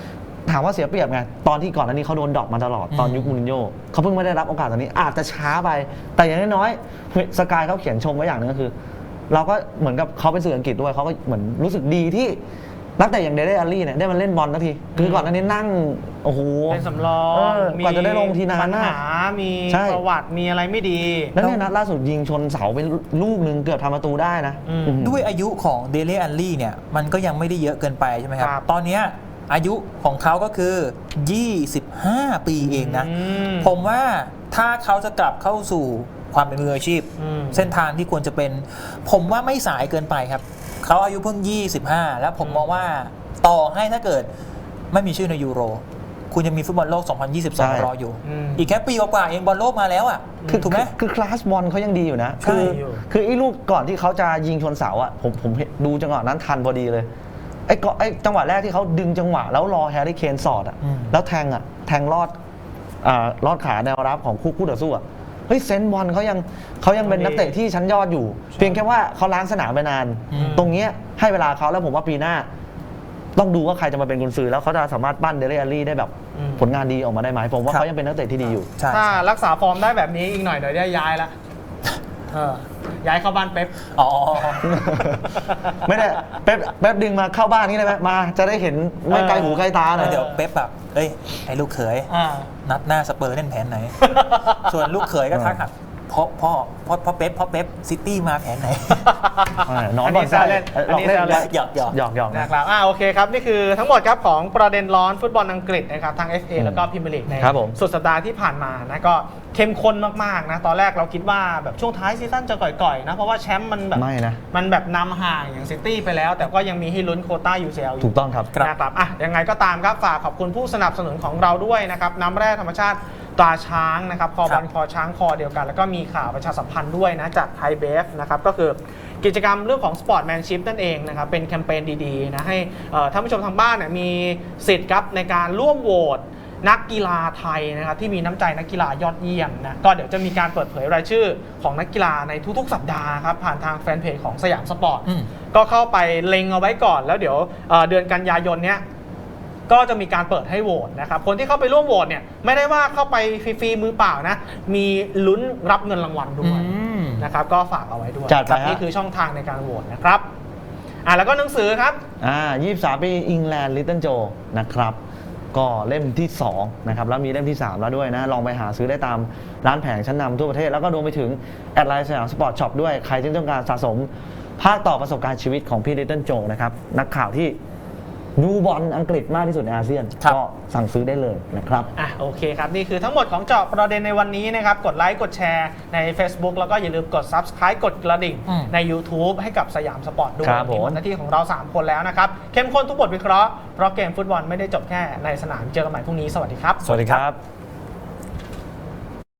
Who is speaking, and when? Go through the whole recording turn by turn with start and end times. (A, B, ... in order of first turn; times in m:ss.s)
0:00.5-0:08.7 A
0:02.9-0:03.3 B
0:09.3-0:12.4 A
0:13.0-0:19.0 A
0:14.9-0:15.3 C
0:16.7-0:21.6 C
0:19.7-0:20.0 A
0:21.4-0:25.2 A
0:24.6-0:25.0 C
0:25.0-0:44.3 B
0:28.4-0:28.6 C
0:32.6-0:33.7 C
0:37.2-0:37.7 C
0:42.4-0:42.7 C
0:44.9-0:50.9 B
0:47.6-0:47.9 A
0:48.2-0:48.7 C
0:50.4-0:50.8 C
0:50.5-0:57.1 A
0:52.4-0:52.8 B
0:52.4-0:53.0 C
0:57.7-1:02.3 A
1:00.8-1:01.2 B
1:03.0-1:12.5 A
1:07.0-1:07.5 C
1:08.6-1:08.8 C
1:10.3-1:10.7 B
1:10.3-1:10.7 C
1:13.3-1:18.7 A
1:16.3-1:16.7 C
1:18.7-1:19.2 B
1:18.9-1:21.3 C
1:22.3-1:23.8 C
1:23.9-1:24.8 B
1:24.4-1:26.0 C
1:24.6-1:25.3 A
1:25.8-1:30.2 A
1:29.1-1:30.4 C
1:30.0-1:32.1 B
1:32.1-1:32.5 C
1:32.6-1:39.0 B
1:34.0-1:34.7 C
1:35.3-1:35.6 A
1:39.0-1:41.5 C
1:39.6-1:42.5 A
1:41.2-1:42.0 B
1:42.3-2:28.8 C
1:46.6-1:46.8 A
1:47.4-1:47.8 A
1:53.9-1:54.4 A
1:58.0-1:58.5 A
2:25.0-2:25.3 B
2:29.7-2:40.2 C
2:36.4-2:37.3 B
2:38.3-2:38.8 A
2:41.0-2:42.0 C
2:42.2-2:45.0 A
2:45.5-2:57.6 A
2:58.4-3:01.9 A
3:01.9-3:16.9 C
3:08.4-3:08.7 B
3:10.4-3:11.0 A
3:16.8-3:17.4 A
3:16.8-3:17.2 B